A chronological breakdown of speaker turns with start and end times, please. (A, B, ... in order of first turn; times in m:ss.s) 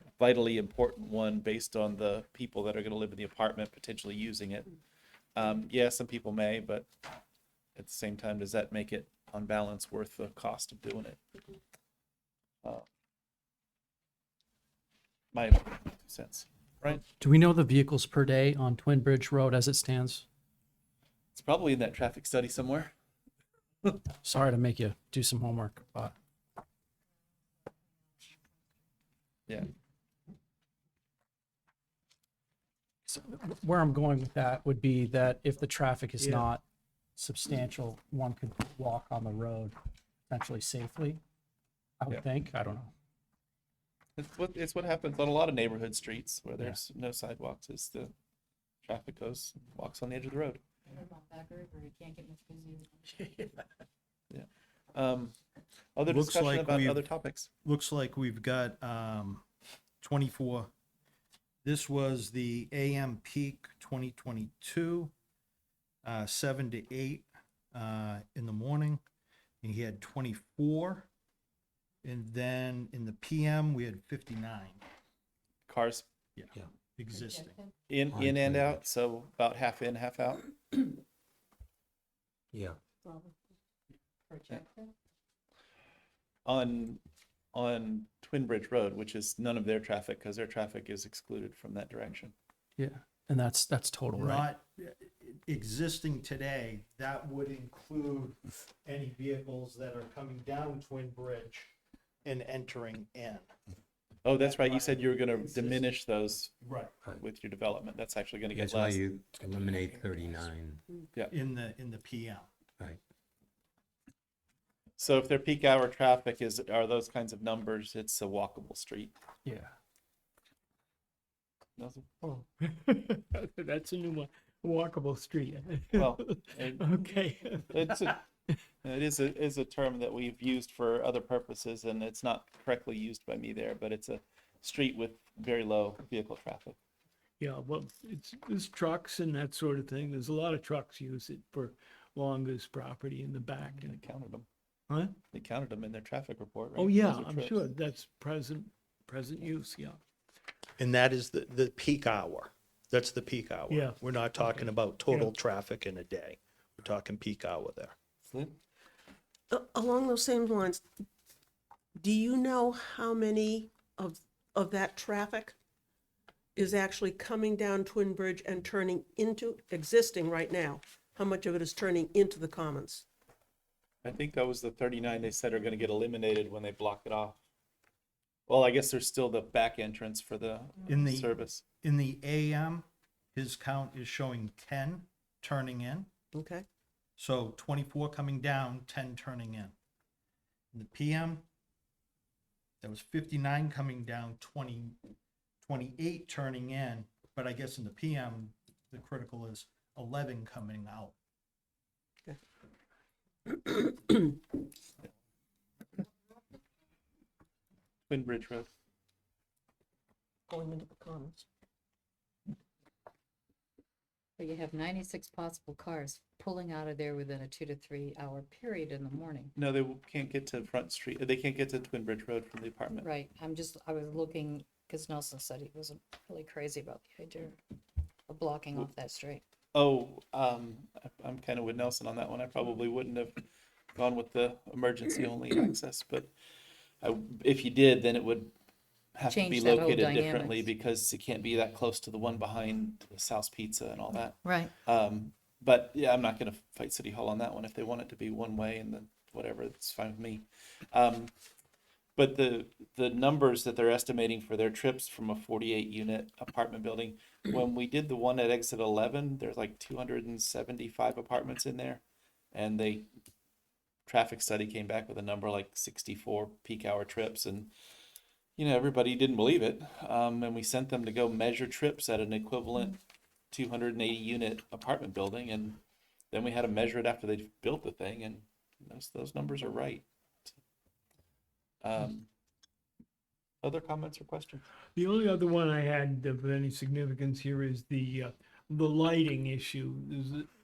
0:00.2-0:04.7 A
0:05.4-0:06.9 A
0:07.8-0:11.2 A
0:15.3-0:17.0 A
0:17.2-0:20.2 B
0:21.3-0:22.9 A
0:24.2-0:26.1 B
0:33.1-0:36.6 B
0:37.2-0:39.8 B
0:40.3-0:41.2 B
0:42.0-0:42.9 B
0:44.2-0:48.1 A
0:48.8-0:50.6 A
0:50.9-0:53.7 C
0:54.3-0:55.4 A
0:56.0-0:57.5 A
0:56.1-0:57.0 D
0:57.6-0:59.4 D
1:00.0-1:00.7 D
1:01.6-1:05.1 D
1:06.0-1:09.0 D
1:09.6-1:11.1 D
1:12.0-1:14.8 D
1:15.7-1:16.1 A
1:16.4-1:17.6 D
1:17.2-1:17.7 C
1:17.9-1:20.5 A
1:18.1-1:18.8 E
1:22.5-1:22.8 E
1:23.0-1:23.3 F
1:24.3-1:24.9 C
1:26.4-1:27.0 A
1:27.5-1:32.4 A
1:32.8-1:34.5 B
1:34.2-1:41.7 D
1:42.2-1:43.5 D
1:44.2-1:46.5 A
1:44.3-1:45.9 D
1:46.6-1:46.9 D
1:47.2-1:49.0 A
1:48.5-1:50.8 E
1:51.3-1:52.5 D
1:55.0-1:59.1 A
1:59.5-1:59.7 B
2:01.8-2:02.1 A
2:02.2-2:08.2 G
2:05.9-2:06.9 A
2:07.7-2:08.2 A
2:08.8-2:16.8 A
2:17.4-2:24.0 G
2:23.6-2:24.5 A
2:25.3-2:27.6 A
2:26.8-2:30.0 G
2:30.8-2:38.0 D
2:33.7-2:35.3 G
2:39.5-2:40.9 F
2:42.0-2:45.6 F
2:46.6-2:53.0 F
2:54.0-2:57.4 A
2:58.5-3:01.6 A
3:00.9-3:06.1 D
3:06.3-3:06.6 F
3:07.2-3:09.7 D
3:10.7-3:11.4 D
3:12.8-3:15.0 D
3:15.6-3:21.2 D
3:23.6-3:24.4 F
3:28.1-3:28.7 A
3:30.5-3:31.5 F
3:34.4-3:39.5 C
3:39.6-3:43.1 A
3:42.9-3:47.6 C
3:48.3-3:49.4 C
3:49.7-3:53.4 A
3:54.0-3:56.3 A
3:57.0-3:58.5 A
3:59.2-4:11.3 A
3:59.3-4:00.7 C
4:04.4-4:04.7 C
4:12.2-4:22.0 A
4:22.5-4:23.1 A
4:24.1-4:27.7 A
4:28.6-4:33.0 A
4:33.5-4:35.8 A
4:36.3-4:40.5 A
4:41.8-4:42.3 A
4:43.6-4:44.6 A
4:45.0-4:50.5 G